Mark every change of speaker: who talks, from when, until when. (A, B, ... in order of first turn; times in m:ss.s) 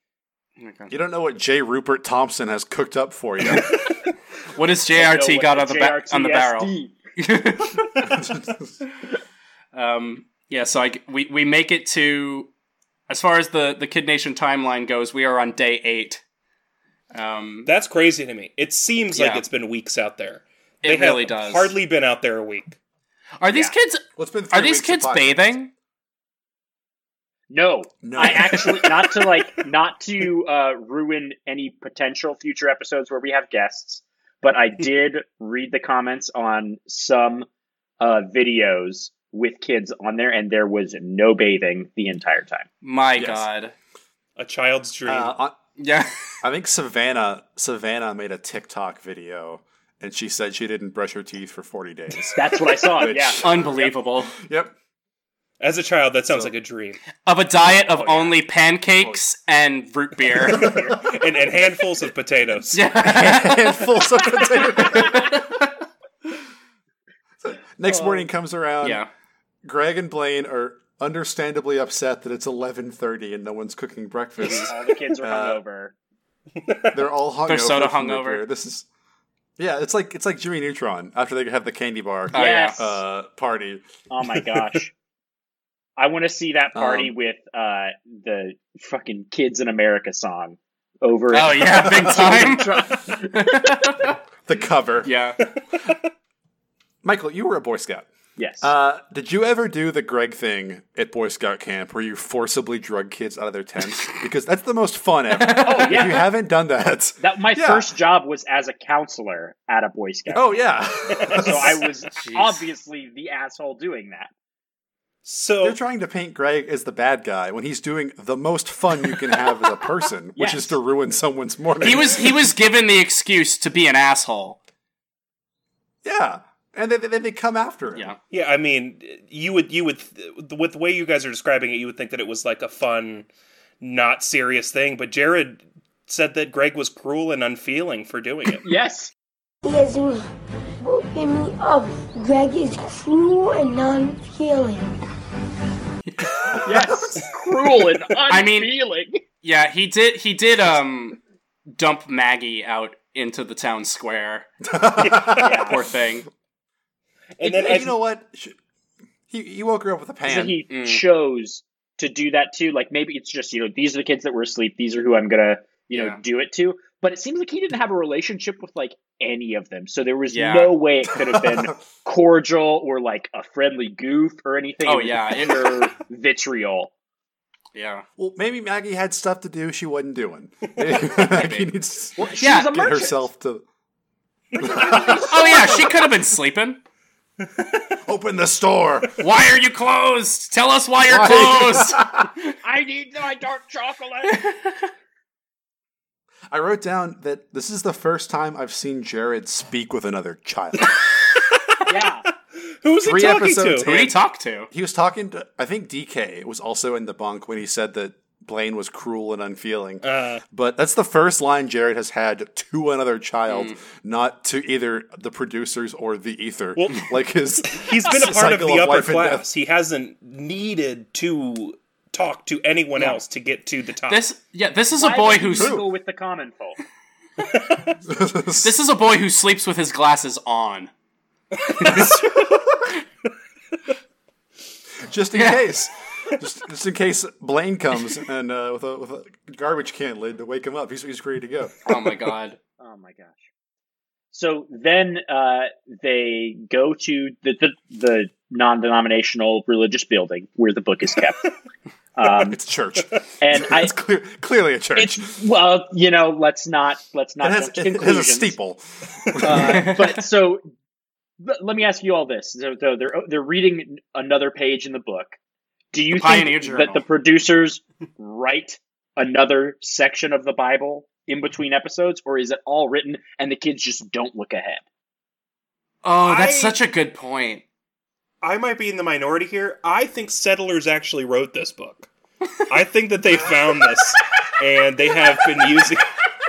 0:00.6-0:00.9 A
0:00.9-0:03.7 B
0:04.5-0:08.2 A
0:05.0-0:06.9 C
0:08.1-0:08.7 B
0:09.7-0:12.5 A
0:13.1-0:16.2 A
0:17.1-0:17.7 A
0:17.7-0:22.8 D
0:19.1-0:19.4 A
0:20.8-0:21.8 A
0:23.4-0:25.7 A
0:24.2-0:25.5 B
0:27.5-0:37.5 C
0:28.0-0:29.0 B
0:38.0-0:42.7 C
0:42.8-0:43.7 A
0:43.2-0:43.5 B
0:44.4-0:45.3 D
0:45.1-0:45.6 B
0:45.8-0:46.1 A
0:46.4-0:54.7 B
0:52.4-0:53.4 C
0:53.4-0:54.3 A
0:55.6-0:57.0 D
0:57.2-1:00.8 A
0:57.8-0:58.4 C
1:00.4-1:02.8 D
1:00.5-1:01.0 C
1:02.7-1:03.8 A
1:03.0-1:05.5 B
1:04.9-1:05.7 A
1:07.4-1:09.0 B
1:07.9-1:08.2 C
1:08.8-1:09.1 A
1:09.6-1:15.6 B
1:14.4-1:14.7 A
1:14.6-1:15.9 C
1:16.6-1:17.0 D
1:16.9-1:18.9 B
1:17.5-1:18.4 A
1:19.6-1:23.8 B
1:22.3-1:22.8 A
1:22.3-1:22.9 C
1:24.1-1:24.9 C
1:26.0-1:33.6 C
1:26.8-1:27.1 B
1:31.3-1:34.2 A
1:31.9-1:32.6 B
1:34.4-1:35.1 B
1:35.0-1:35.4 A
1:37.0-1:38.1 B
1:38.4-1:38.7 C
1:38.6-1:47.9 B
1:45.3-1:46.2 A
1:45.6-1:46.2 C
1:47.2-1:50.5 C
1:50.3-1:51.8 B
1:51.4-1:54.3 C
1:52.2-1:52.6 A
1:55.2-1:55.8 D
1:55.6-2:02.5 B
2:00.4-2:00.8 C
2:01.8-2:04.6 A
2:06.0-2:08.1 B
2:08.3-2:13.3 D
2:13.8-2:18.6 D
2:18.6-2:19.1 C
2:19.6-2:20.3 E
2:20.8-2:25.0 E
2:26.1-2:26.7 A
2:26.6-2:29.2 C
2:28.3-2:28.7 A
2:29.4-2:31.2 A
2:31.7-2:34.5 A
2:34.6-2:35.8 B
2:35.3-2:36.3 A
2:35.4-2:35.8 C
2:37.4-2:37.9 D
2:37.4-2:38.6 B
2:39.3-2:40.6 B
2:40.3-2:56.9 C
2:40.7-2:41.0 A
2:45.9-2:46.2 A
2:50.3-2:50.7 A
2:51.1-2:51.8 B
2:54.8-2:55.9 A
2:57.7-2:58.0 A
2:58.2-3:03.6 B
3:01.1-3:01.7 A
3:02.2-3:03.2 C
3:02.4-3:02.8 A
3:04.6-3:05.4 B
3:04.8-3:06.0 C
3:05.1-3:06.8 A
3:07.4-3:07.9 D
3:08.0-3:09.2 B
3:09.2-3:12.1 A
3:11.0-3:12.3 B
3:12.6-3:14.4 C
3:14.3-3:14.8 A
3:16.5-3:21.0 B
3:21.7-3:22.1 D
3:21.9-3:22.2 C
3:22.8-3:23.9 D
3:23.0-3:24.2 B
3:23.8-3:24.7 A
3:24.7-3:39.5 B
3:30.0-3:30.4 D
3:33.5-3:33.8 A
3:36.8-3:37.1 D
3:37.7-3:44.2 D
3:44.1-3:45.8 A
3:45.0-3:46.8 C
3:45.6-3:45.8 B
3:47.5-3:48.0 D
3:48.1-3:48.7 B
3:48.6-3:50.9 A
3:51.6-3:52.7 D
3:51.8-3:52.2 A
3:51.9-3:52.2 B
3:55.0-4:02.2 B
3:55.3-3:55.6 A
4:01.8-4:02.6 A
4:02.8-4:03.5 C
4:04.3-4:11.4 C
4:12.2-4:12.6 C
4:12.2-4:15.4 B
4:13.4-4:13.9 C
4:15.0-4:18.6 C
4:17.4-4:19.9 B
4:19.4-4:20.6 C
4:19.7-4:20.2 A
4:21.4-4:25.4 C
4:25.9-4:34.8 C
4:26.1-4:27.0 A
4:36.0-4:37.6 A
4:36.2-4:36.8 D
4:38.4-4:42.1 D
4:42.7-4:46.1 D